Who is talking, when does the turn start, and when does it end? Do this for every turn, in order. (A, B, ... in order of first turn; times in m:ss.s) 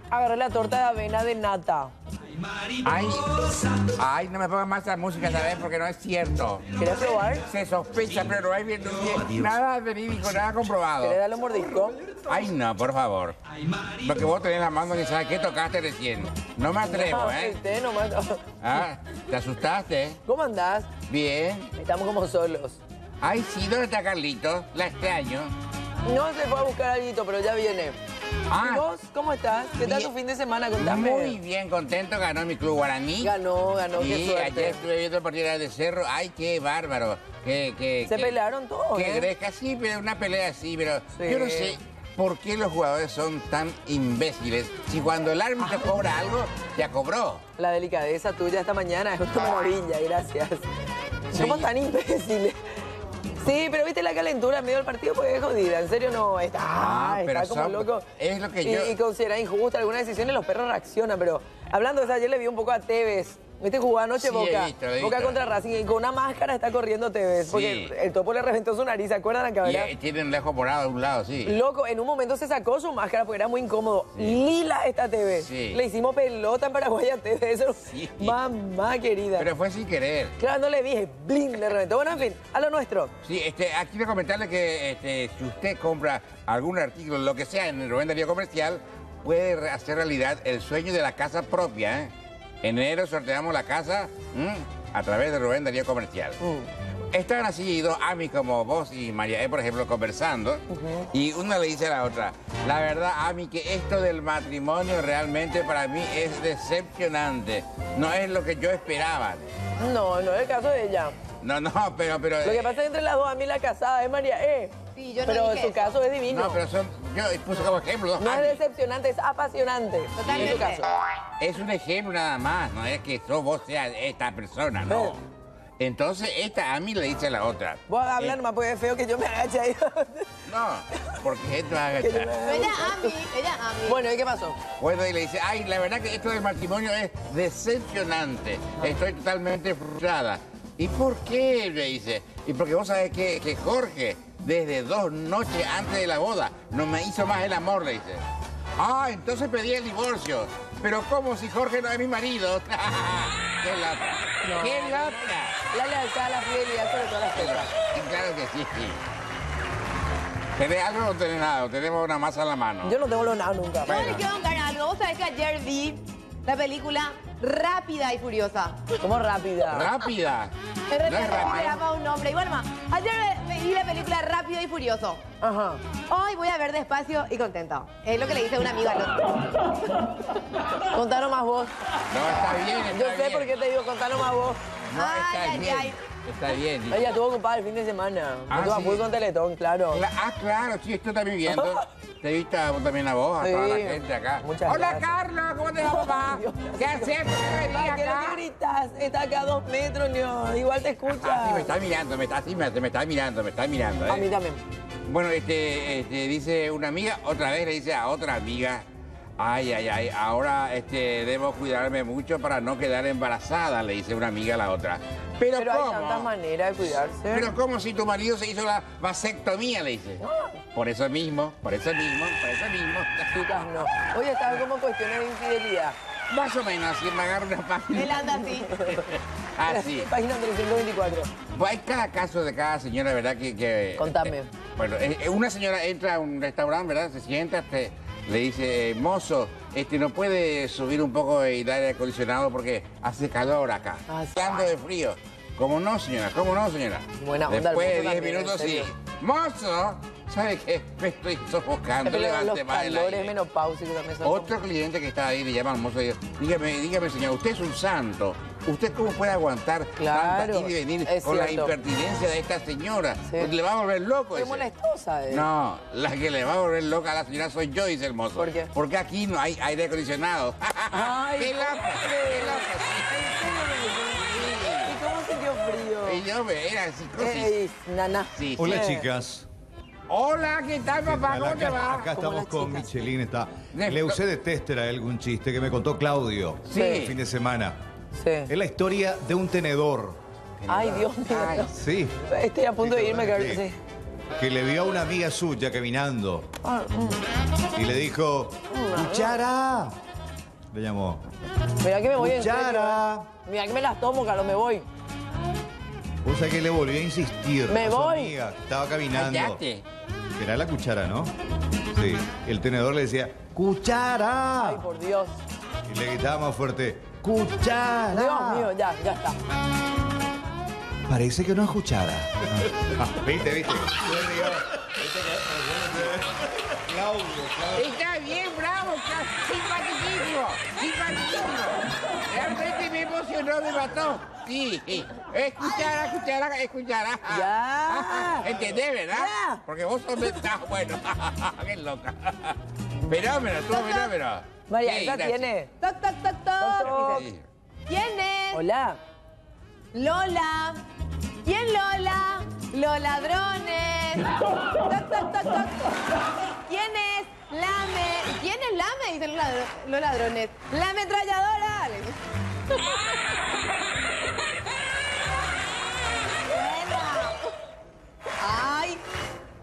0:00.1-0:01.9 A
0:02.8-0:06.7 B
0:06.8-0:07.5 A
0:07.5-0:11.2 B
0:11.0-0:12.0 A
0:12.3-0:13.4 B
0:14.0-0:17.6 B
0:16.8-0:18.5 A
0:18.6-0:20.2 B
0:20.2-0:20.9 A
0:21.1-0:21.7 B
0:21.8-0:22.8 A
0:23.2-0:25.5 B
0:26.0-0:28.0 A
0:28.5-0:28.9 B
0:28.6-0:31.4 A
0:29.8-0:30.1 B
0:30.8-0:33.3 B
0:33.2-0:34.8 A
0:33.9-0:38.4 B
0:38.1-0:39.3 A
0:38.9-0:47.4 B
0:41.1-0:41.8 A
0:47.6-0:50.6 A
0:51.3-0:52.6 A
0:51.3-0:51.7 B
0:53.4-0:58.1 A
0:56.7-0:58.9 B
0:58.6-1:09.9 A
1:04.2-1:05.4 B
1:07.4-1:07.9 B
1:09.6-1:11.6 B
1:11.4-1:19.5 A
1:15.4-1:15.8 B
1:17.9-1:18.4 B
1:19.4-1:20.3 B
1:20.4-1:23.1 A
1:23.2-1:32.1 B
1:32.6-1:36.4 B
1:36.4-1:36.7 A
1:37.1-1:49.5 B
1:40.7-1:41.1 A
1:49.8-1:51.2 A
1:51.4-1:52.7 B
1:52.4-1:56.6 A
1:55.0-1:56.0 C
1:56.3-1:58.6 B
1:58.2-2:00.9 A
2:00.2-2:00.8 C
2:00.3-2:00.6 B
2:01.4-2:05.2 B
2:04.9-2:05.2 A
2:05.8-2:08.4 B
2:07.9-2:10.4 A
2:10.5-2:12.4 B
2:12.0-2:13.1 A
2:12.4-2:14.0 C
2:13.9-2:14.6 A
2:14.8-2:28.2 B
2:28.8-2:35.6 B
2:34.4-2:37.7 A
2:37.3-2:39.0 B
2:40.6-2:43.0 B
2:42.8-2:44.2 A
2:43.8-2:48.8 C
2:43.9-2:44.3 B
2:49.0-2:49.9 A
2:49.7-2:50.5 B
2:50.9-2:55.2 C
2:51.0-2:51.8 B
2:55.4-2:55.8 A
2:56.1-2:59.8 C
3:00.9-3:01.7 A
3:02.1-3:03.5 B
3:02.9-3:04.6 A
3:04.9-3:07.1 B
3:04.9-3:06.0 C
3:06.9-3:10.0 A
3:08.5-3:09.0 B
3:09.9-3:18.4 B
3:11.5-3:11.8 A
3:13.4-3:15.1 A
3:15.8-3:21.7 A
3:20.9-3:24.3 B
3:24.1-3:24.6 A
3:25.1-3:28.9 B
3:29.4-3:36.3 B
3:35.6-3:37.5 A
3:37.3-3:40.2 B
3:40.2-3:40.6 A
3:40.7-3:43.6 B
3:43.3-3:46.0 A
3:46.3-3:50.1 B
3:47.9-3:48.8 C
3:48.6-3:51.3 A
3:51.5-4:13.3 B
3:54.0-3:54.5 A
4:04.1-4:04.4 A
4:07.2-4:08.9 A
4:12.0-4:14.6 A
4:14.2-4:24.7 B
4:20.0-4:21.7 A
4:23.3-4:23.5 A
4:24.3-4:25.5 A
4:25.3-4:35.0 B
4:28.4-4:28.7 A
4:30.9-4:36.2 A
4:36.0-4:37.6 B
4:37.2-4:39.1 A
4:38.3-4:38.8 B
4:38.6-4:39.5 D
4:40.1-4:42.1 B
4:41.0-4:47.8 D
4:42.1-4:42.9 A
4:43.7-4:44.2 B
4:46.7-4:47.2 B
4:46.7-4:47.1 A
4:48.2-4:48.5 A
4:48.5-4:50.2 D
4:50.6-4:51.7 B
4:50.7-4:53.8 A
4:51.7-4:52.2 D
4:52.8-4:53.6 D
4:54.4-4:56.5 D
4:56.6-4:57.2 A
4:57.7-5:00.0 D
4:58.7-4:59.4 A
5:00.7-5:01.2 D
5:01.8-5:04.9 A
5:02.2-5:03.3 D
5:06.2-5:09.6 D
5:07.7-5:08.3 A
5:09.1-5:09.8 B
5:10.4-5:11.3 D
5:11.9-5:14.8 D
5:14.6-5:15.4 A
5:15.9-5:18.7 D
5:18.1-5:19.4 A
5:21.1-5:27.9 D
5:27.7-5:45.5 B
5:37.3-5:39.6 A
5:43.7-5:44.1 C
5:44.7-5:45.7 A
5:45.8-5:47.3 C
5:46.6-5:47.2 A
5:46.8-5:47.4 B
5:47.9-5:48.6 C
5:48.5-5:49.0 A
5:49.9-5:50.8 C
5:51.4-5:56.1 C
5:56.6-6:02.2 C
6:02.7-6:03.2 C
6:06.4-6:07.5 C
6:08.4-6:09.0 C